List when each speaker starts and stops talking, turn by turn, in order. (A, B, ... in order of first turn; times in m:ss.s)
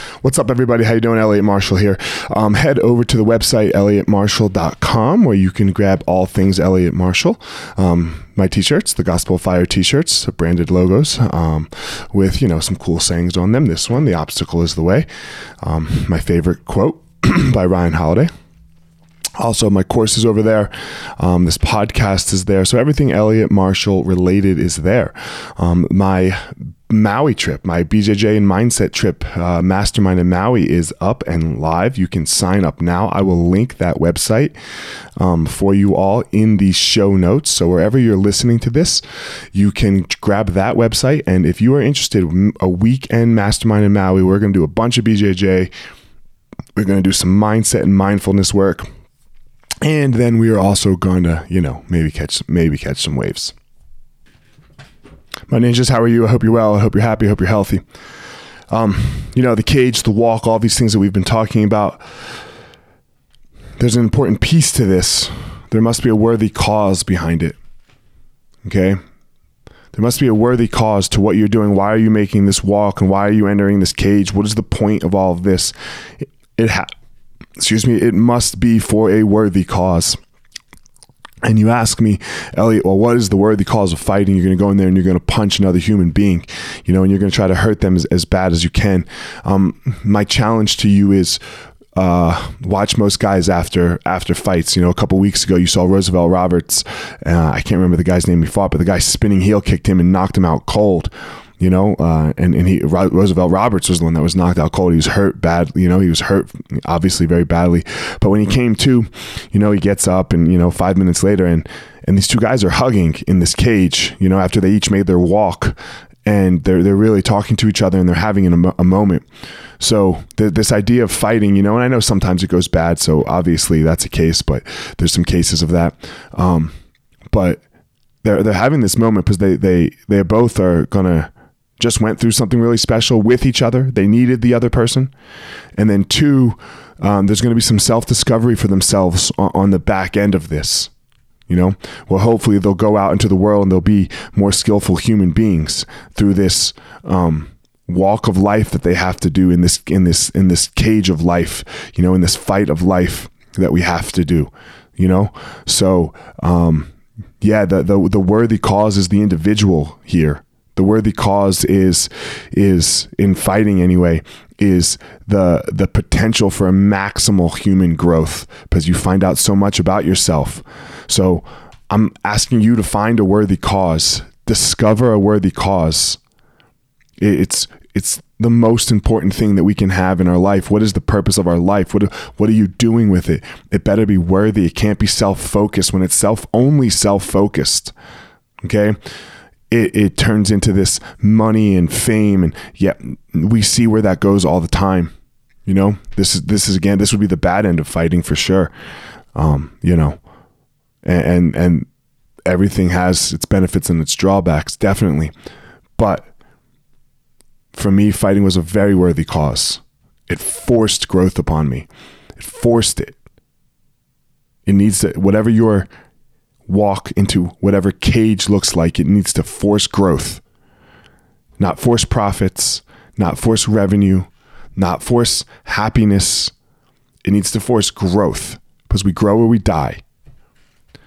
0:00.2-0:15.1 A
0:15.6-0:18.3 A
0:19.4-0:34.5 A
0:35.2-0:45.7 A
0:46.8-0:48.9 A
0:49.8-0:53.5 A
0:55.5-0:57.8 A
0:58.7-1:02.0 A
1:03.8-1:07.6 A
1:08.6-1:09.0 A
1:09.9-1:16.9 A
1:17.6-1:20.2 A
1:21.4-1:31.4 A
1:31.9-1:59.2 A
1:59.8-2:06.7 A
2:07.3-2:07.6 A
2:08.2-2:15.1 A
2:15.8-2:20.9 A
2:21.5-2:56.2 A
2:57.2-3:07.9 A
3:08.6-3:09.0 A
3:09.7-3:15.1 A
3:15.6-3:18.7 A
3:19.3-3:20.2 A
3:21.0-3:21.9 A
3:22.4-3:25.3 A
3:26.0-3:26.3 A
3:27.7-3:33.2 A
3:34.6-3:35.9 A
3:36.6-3:40.4 A
3:41.6-3:46.5 A
3:47.2-3:50.0 A